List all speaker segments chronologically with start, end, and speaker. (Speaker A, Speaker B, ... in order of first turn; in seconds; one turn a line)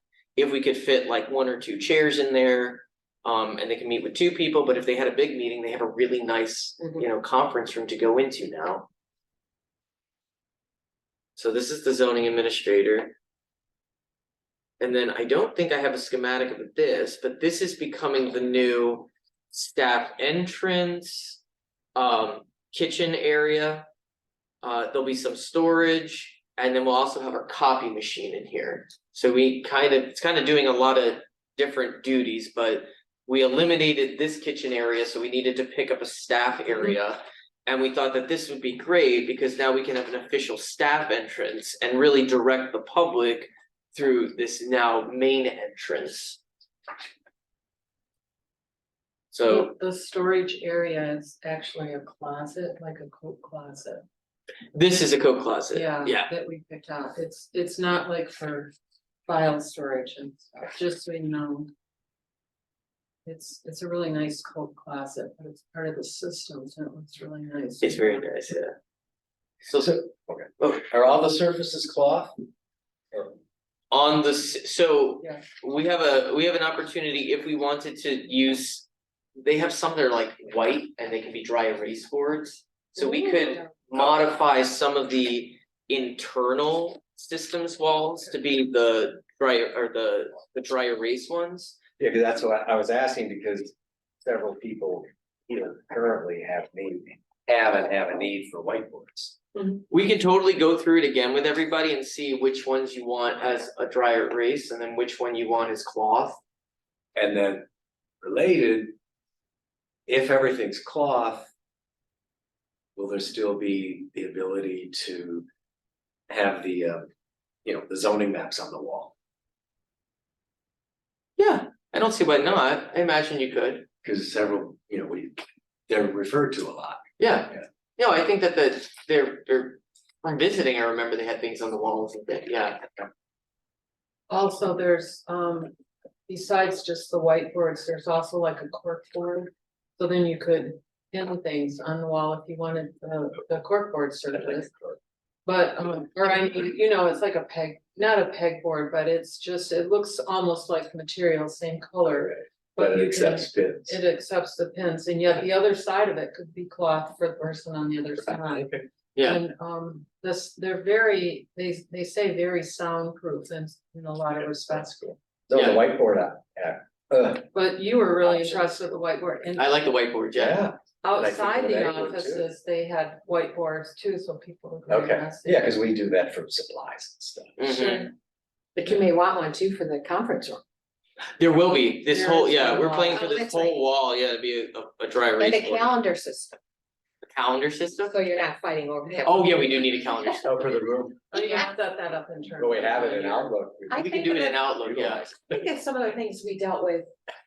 Speaker A: 0.3-8.9
Speaker A: 11.4-13.2
Speaker A: 14.8-21.4
Speaker A: 21.9-23.9
Speaker A: 24.6-46.4
Speaker A: 49.3-49.7
Speaker B: 49.5-54.0
Speaker A: 54.7-56.3
Speaker B: 55.7-58.7
Speaker B: 59.3-61.7
Speaker B: 63.2-68.2
Speaker A: 67.8-68.7
Speaker A: 69.7-70.0
Speaker C: 69.8-72.3
Speaker A: 73.9-78.9
Speaker A: 79.4-91.8
Speaker D: 83.0-83.7
Speaker C: 92.0-93.7
Speaker C: 94.2-99.4
Speaker A: 99.9-106.4
Speaker C: 107.1-107.6
Speaker C: 108.2-108.9
Speaker C: 110.1-111.5
Speaker C: 113.0-115.5
Speaker C: 116.3-117.1
Speaker C: 117.6-119.1
Speaker A: 121.4-123.9
Speaker C: 124.0-127.0
Speaker A: 127.2-133.0
Speaker B: 134.3-135.7
Speaker B: 136.3-144.9
Speaker B: 145.4-165.2
Speaker C: 152.2-154.0
Speaker C: 158.3-158.8
Speaker A: 159.2-159.4
Speaker C: 165.5-167.5
Speaker A: 165.5-165.8
Speaker B: 167.5-169.8
Speaker C: 168.2-168.7
Speaker A: 169.6-170.6
Speaker C: 170.3-172.5
Speaker B: 171.0-175.7
Speaker C: 174.9-177.6
Speaker A: 177.6-178.1
Speaker D: 177.8-178.1
Speaker D: 178.8-180.6
Speaker A: 181.4-185.9
Speaker B: 182.1-183.2
Speaker D: 183.1-183.8
Speaker D: 185.4-186.6
Speaker A: 187.3-188.2
Speaker D: 188.1-189.7
Speaker A: 189.2-190.6
Speaker C: 190.4-191.3
Speaker B: 191.3-193.5
Speaker C: 192.6-195.5
Speaker D: 193.9-194.6
Speaker A: 193.9-195.3
Speaker D: 195.5-197.1